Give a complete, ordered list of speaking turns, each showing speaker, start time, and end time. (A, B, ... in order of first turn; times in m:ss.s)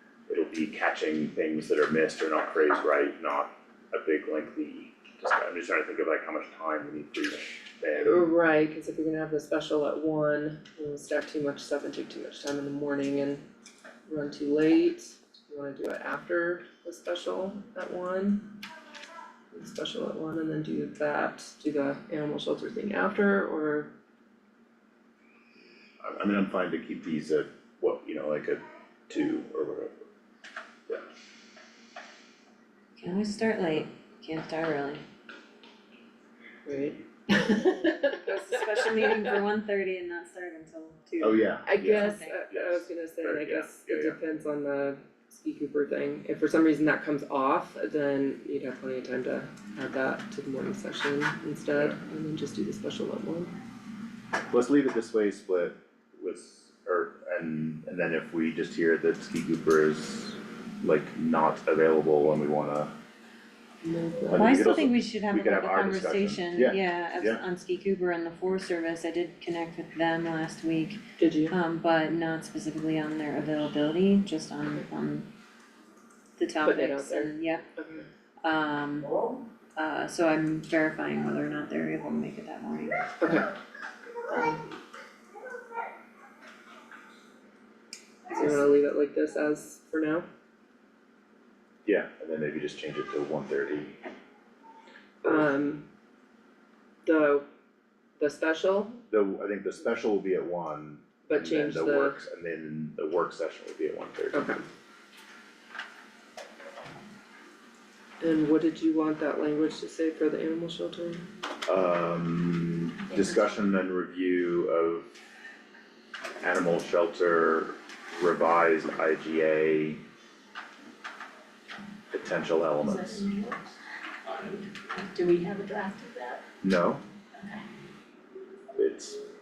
0:00.3-0:08.3 A
0:08.0-0:13.4 B
0:14.1-0:18.6 B
0:19.5-0:23.9 B
0:26.0-0:30.0 A
0:33.0-0:35.0 C
0:36.6-0:39.4 B
0:37.7-0:42.4 C
0:41.2-0:44.2 A
0:41.6-0:53.5 B
0:51.7-0:52.0 A
0:54.5-1:02.9 A
1:03.8-1:04.7 B
1:04.3-1:07.4 A
1:04.4-1:15.3 C
1:11.2-1:11.6 B
1:16.4-1:17.6 C
1:16.6-1:18.1 B
1:18.4-1:19.2 C
1:19.8-1:23.2 C
1:23.2-1:23.5 B
1:28.3-1:28.8 C
1:28.4-1:30.3 B
1:31.8-1:34.0 A
1:35.2-1:35.8 B
1:37.0-1:37.4 B
1:38.2-1:39.0 B
1:39.1-1:44.6 A
1:41.3-1:42.2 B
1:44.3-1:44.6 B
1:48.2-1:51.3 B
1:51.7-1:55.1 A
1:56.4-2:00.0 A
2:02.1-2:03.3 A
2:02.9-2:03.6 D
2:04.4-2:06.4 D
2:06.6-2:07.0 A
2:08.8-2:09.2 A